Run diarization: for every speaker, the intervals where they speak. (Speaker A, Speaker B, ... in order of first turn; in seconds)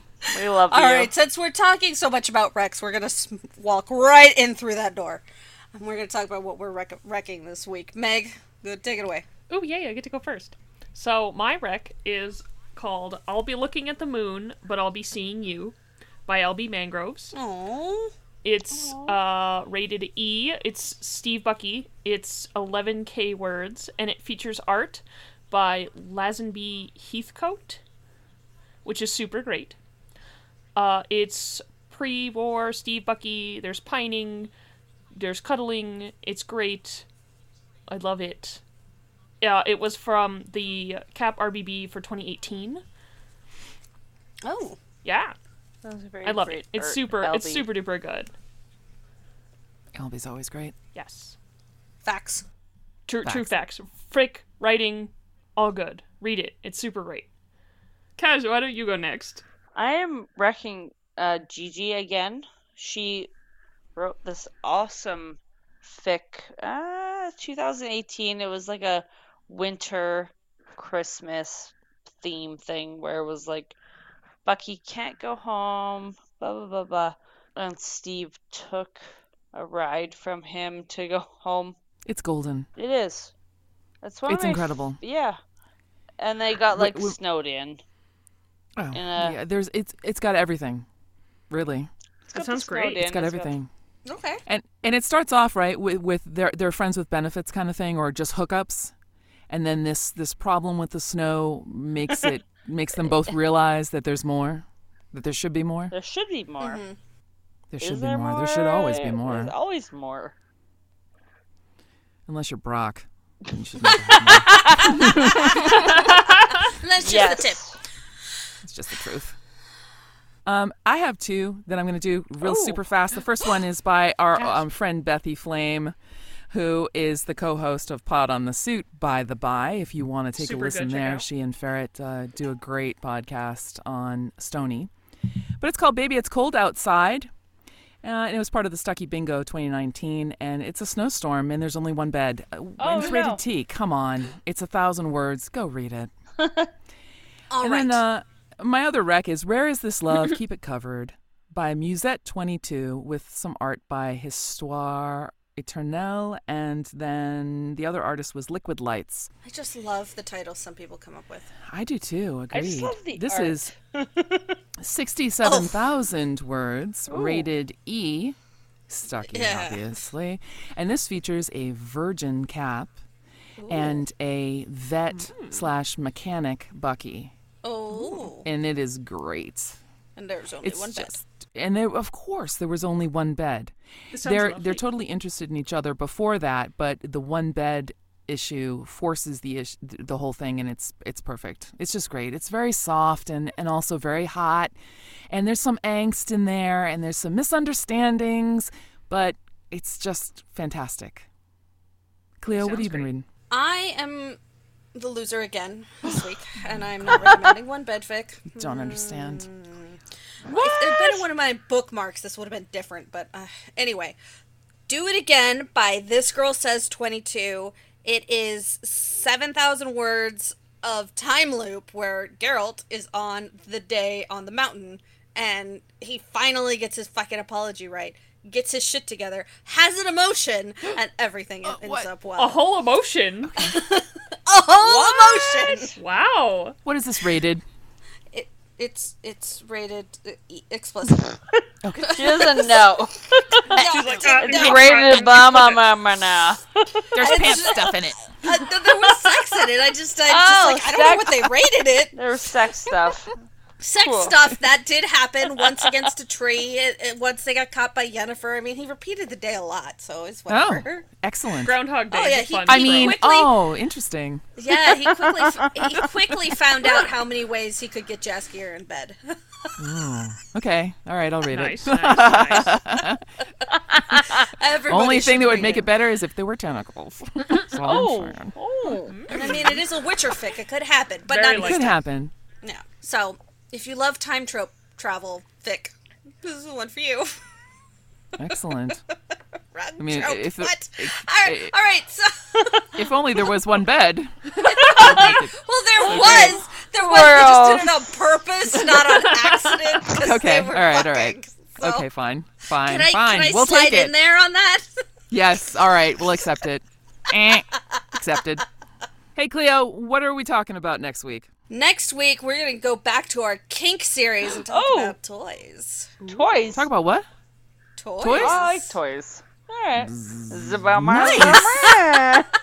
Speaker A: 0.3-1.1, 45.8-47.7, 59.8-63.3, 64.0-73.8, 74.5-81.8, 82.8-83.3, 84.0-85.4, 86.2-87.8, 88.9-89.4, 92.3-93.6, 105.9-106.8, 107.8-110.3, 114.1-115.9, 117.0-117.8, 142.8-143.4, 146.4-146.7, 162.5-164.6, 167.2-167.4, 210.5-211.2, 234.8-235.9, 242.1-247.9, 248.4-249.3, 250.3-251.5, 252.1-253.3, 254.0-254.4, 255.6-256.0, 264.7-266.0, 273.7-274.5, 277.8-279.2, 296.0-298.0, 314.7-315.1, 316.3-316.9, 318.3-322.5
Speaker B: 0.7-9.2, 17.3-18.1, 44.4-44.8, 52.0-52.5, 94.1-94.4, 106.6-107.0, 115.3-117.6, 147.5-148.0, 159.4-161.5, 165.4-165.8, 169.3-170.0, 173.6-174.1, 177.6-178.5, 180.2-181.2, 203.5-204.4, 204.9-214.2, 214.9-232.6, 233.6-235.9, 238.3-241.3, 242.0-242.9, 243.7-245.3, 247.2-252.2, 253.8-261.1, 262.1-263.6, 264.6-269.7, 274.4-275.9, 279.3-282.0, 282.6-287.4, 289.7-293.0, 294.6-302.1, 302.8-305.1, 311.7-316.2, 318.0-319.0, 321.2-322.0
Speaker C: 9.5-17.3, 18.4-27.8, 28.9-29.8, 30.8-34.5, 35.1-37.1, 37.9-38.6, 39.4-42.8, 45.0-45.4, 46.2-48.3, 51.0-51.4, 53.1-57.3, 58.2-59.4, 92.3-93.0, 115.9-116.6, 130.4-131.3, 175.1-175.7, 184.1-184.8, 202.5-203.1, 232.4-233.7, 236.0-236.8, 243.7-245.8, 261.6-263.2, 271.5-272.8, 278.9-279.8, 281.3-281.9, 299.0-299.9
Speaker D: 50.0-50.8, 53.2-53.5, 82.0-82.7, 84.3-85.0, 86.7-87.2, 88.8-90.9, 91.5-91.9, 93.0-93.7, 94.5-98.9, 99.5-105.9, 107.7-109.5, 112.3-116.1, 118.6-119.4, 120.5-126.0, 126.5-134.9, 135.6-137.3, 138.0-146.1, 147.6-159.3, 161.7-163.7, 164.8-168.4, 168.9-173.0, 173.7-177.3, 178.0-179.8, 180.6-194.7, 195.3-201.3, 202.4-203.3, 208.5-209.5, 231.7-232.1, 233.5-233.8, 236.8-237.6, 241.8-242.5, 247.1-248.2, 260.5-261.8, 262.7-264.4, 269.8-273.2, 274.8-278.6, 281.6-282.3, 288.4-289.0, 290.0-291.7, 292.9-296.6, 300.1-304.2, 305.3-308.6, 309.4-311.5, 316.7-317.3, 318.2-318.7, 320.0-321.8